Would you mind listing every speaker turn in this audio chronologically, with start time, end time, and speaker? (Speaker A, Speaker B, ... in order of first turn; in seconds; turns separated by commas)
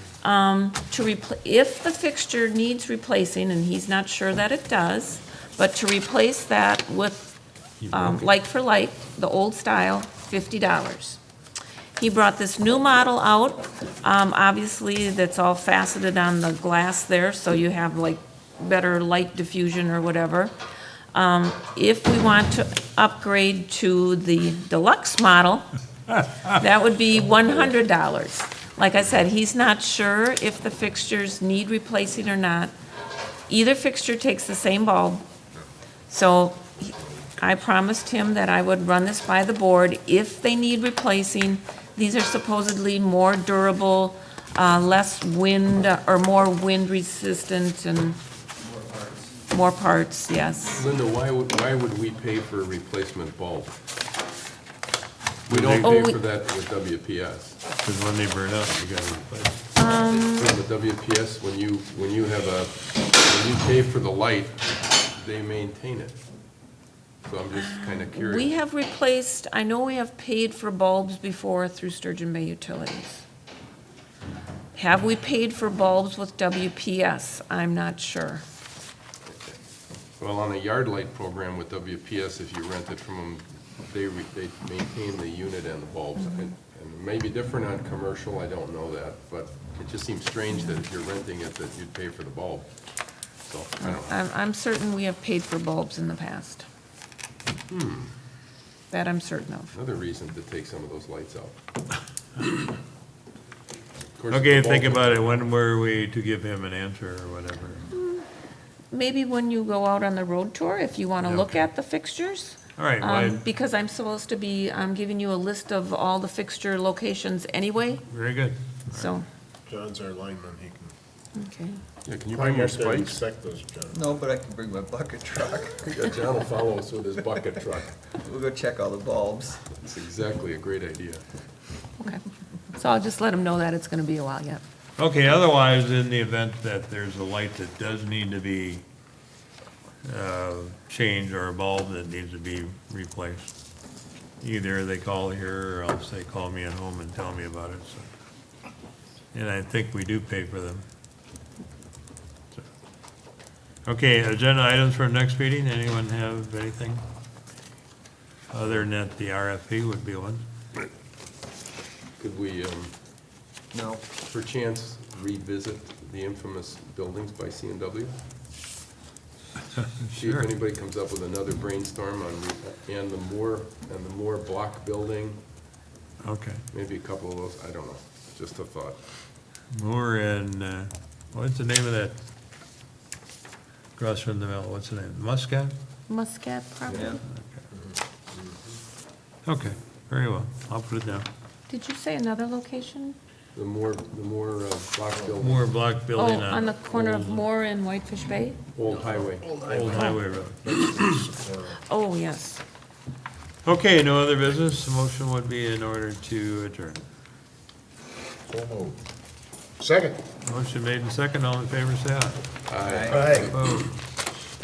Speaker A: 0.2-7.3, Speaker B: 7.8-8.2, Speaker A: 7.9-11.2, Speaker A: 12.0-20.5, Speaker A: 21.1-25.6, Speaker A: 26.4-32.7, Speaker A: 33.5-35.2, Speaker A: 36.1-48.2, Speaker C: 48.7-49.3, Speaker A: 49.5-50.8, Speaker D: 50.7-53.8, Speaker D: 55.5-57.6, Speaker B: 55.5-56.1, Speaker A: 55.8-56.2, Speaker B: 57.8-59.6, Speaker A: 59.7-60.5, Speaker D: 60.0-66.2, Speaker D: 67.2-68.5, Speaker A: 67.6-73.3, Speaker A: 74.7-78.4, Speaker D: 80.2-92.7, Speaker D: 93.5-94.2, Speaker A: 93.8-96.7, Speaker D: 97.7-98.1, Speaker A: 98.9-99.7, Speaker D: 99.7-101.5, Speaker D: 104.1-105.3, Speaker B: 104.3-107.9, Speaker A: 107.9-108.2, Speaker A: 108.9-118.1, Speaker B: 111.2-111.6, Speaker B: 112.8-113.4, Speaker B: 118.1-119.1, Speaker A: 118.9-119.2, Speaker E: 119.7-120.9, Speaker A: 121.3-121.8, Speaker D: 122.0-123.2, Speaker E: 122.3-124.0, Speaker C: 123.9-126.0, Speaker D: 125.8-128.1, Speaker C: 128.1-129.7, Speaker D: 129.7-131.2, Speaker A: 132.0-134.6, Speaker B: 135.0-138.8, Speaker B: 140.0-143.5, Speaker B: 144.4-148.1, Speaker B: 149.3-150.8, Speaker B: 153.8-157.0, Speaker B: 158.5-160.4, Speaker D: 162.2-162.9, Speaker C: 163.7-164.0, Speaker D: 164.3-168.1, Speaker B: 169.7-170.5, Speaker D: 170.1-175.4, Speaker B: 176.2-176.6, Speaker D: 176.7-179.0, Speaker B: 179.7-182.1, Speaker B: 183.9-185.7, Speaker A: 186.1-187.2, Speaker D: 186.9-187.2, Speaker B: 187.2-187.6, Speaker B: 189.4-191.3, Speaker A: 191.7-193.2, Speaker D: 193.5-195.7, Speaker B: 195.4-197.4, Speaker A: 196.1-198.6, Speaker D: 198.8-199.4, Speaker E: 199.1-201.8, Speaker B: 199.6-201.2, Speaker A: 199.9-200.2, Speaker A: 201.9-202.6, Speaker B: 203.6-207.0, Speaker E: 208.5-209.0, Speaker E: 209.8-210.2, Speaker B: 210.4-212.4, Speaker D: 212.7-213.8, Speaker C: 212.8-213.3, Speaker E: 213.1-213.6, Speaker B: 213.2-213.9